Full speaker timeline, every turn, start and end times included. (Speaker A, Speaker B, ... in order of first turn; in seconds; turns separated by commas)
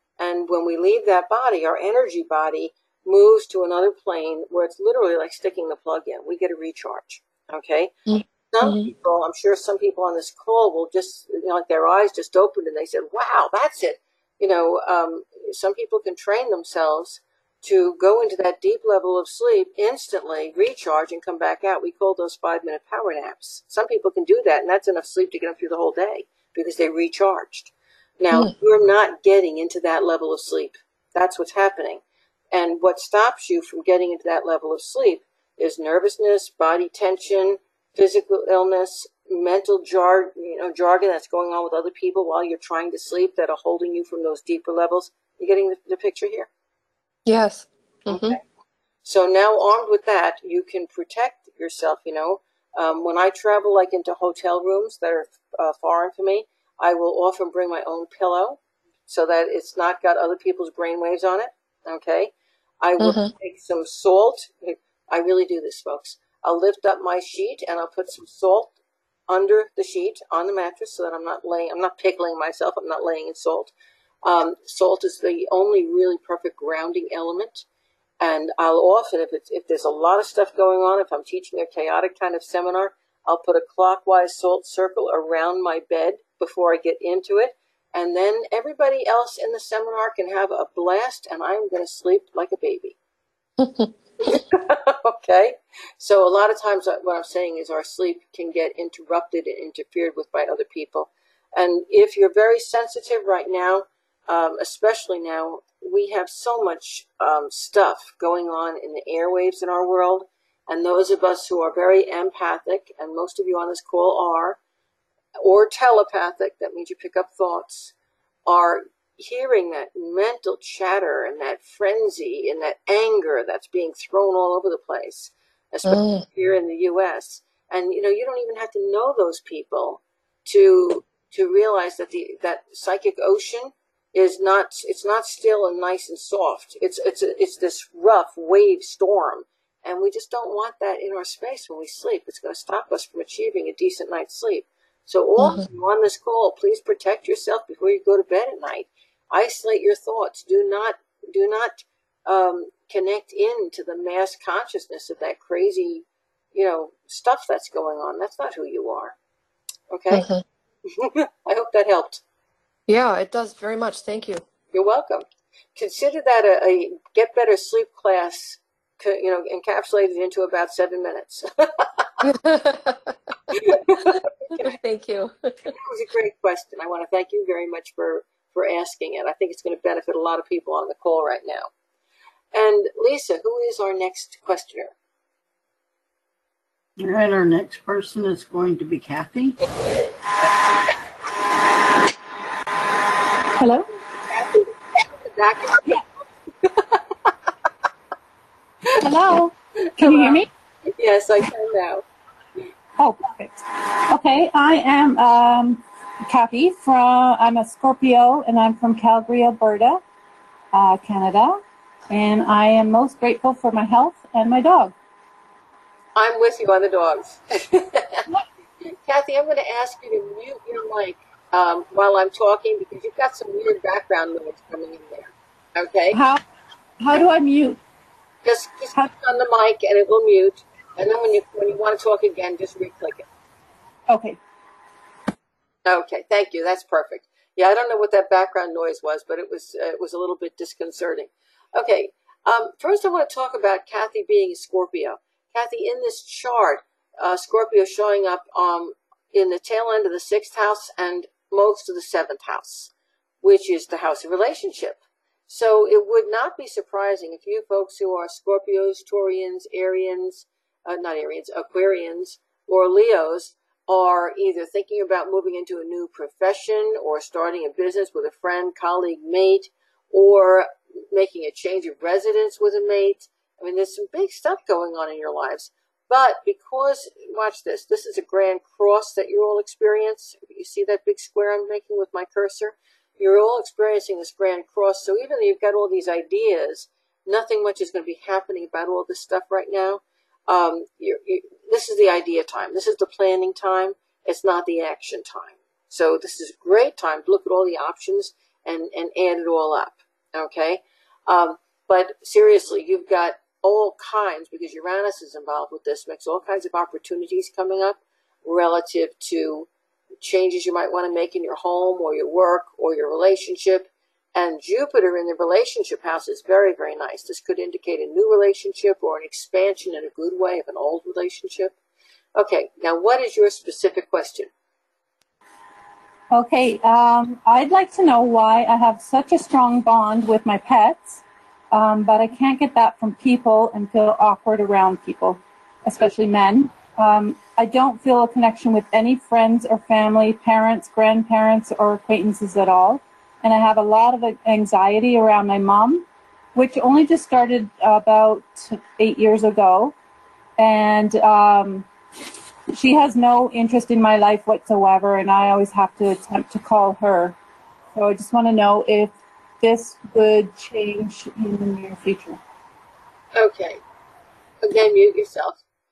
Speaker A: 0.2-7.9, Speaker B: 8.1-8.9, Speaker A: 8.5-32.0, Speaker A: 32.5-46.5, Speaker B: 47.3-48.4, Speaker A: 48.1-48.4, Speaker A: 49.0-68.7, Speaker B: 63.0-63.3, Speaker A: 69.3-73.7, Speaker A: 74.2-77.7, Speaker A: 78.2-93.0, Speaker B: 93.6-93.9, Speaker A: 94.2-114.6, Speaker A: 115.4-117.9, Speaker A: 118.5-159.2, Speaker B: 125.8-126.2, Speaker B: 145.4-145.7, Speaker A: 159.9-160.3, Speaker B: 160.1-160.4, Speaker A: 160.9-162.2, Speaker B: 162.9-164.4, Speaker A: 164.7-172.1, Speaker B: 172.2-173.6, Speaker A: 173.5-174.7, Speaker B: 174.6-175.7, Speaker A: 175.7-181.7, Speaker A: 182.5-184.9, Speaker C: 187.0-189.6, Speaker B: 193.6-193.8, Speaker A: 194.3-196.0, Speaker A: 196.6-197.0, Speaker D: 199.0-200.5, Speaker A: 200.0-202.0, Speaker D: 203.0-210.0, Speaker D: 210.7-214.9, Speaker A: 216.2-218.2, Speaker A: 218.8-226.2, Speaker D: 226.1-226.4, Speaker D: 227.0-227.8, Speaker A: 228.4-233.3, Speaker D: 234.1-234.4, Speaker A: 235.8-252.9, Speaker A: 253.4-309.7, Speaker A: 310.2-321.8, Speaker A: 322.4-324.5, Speaker D: 326.3-349.9, Speaker D: 350.6-351.9, Speaker D: 352.7-357.4, Speaker D: 357.9-362.4, Speaker A: 363.4-363.8, Speaker A: 364.6-365.6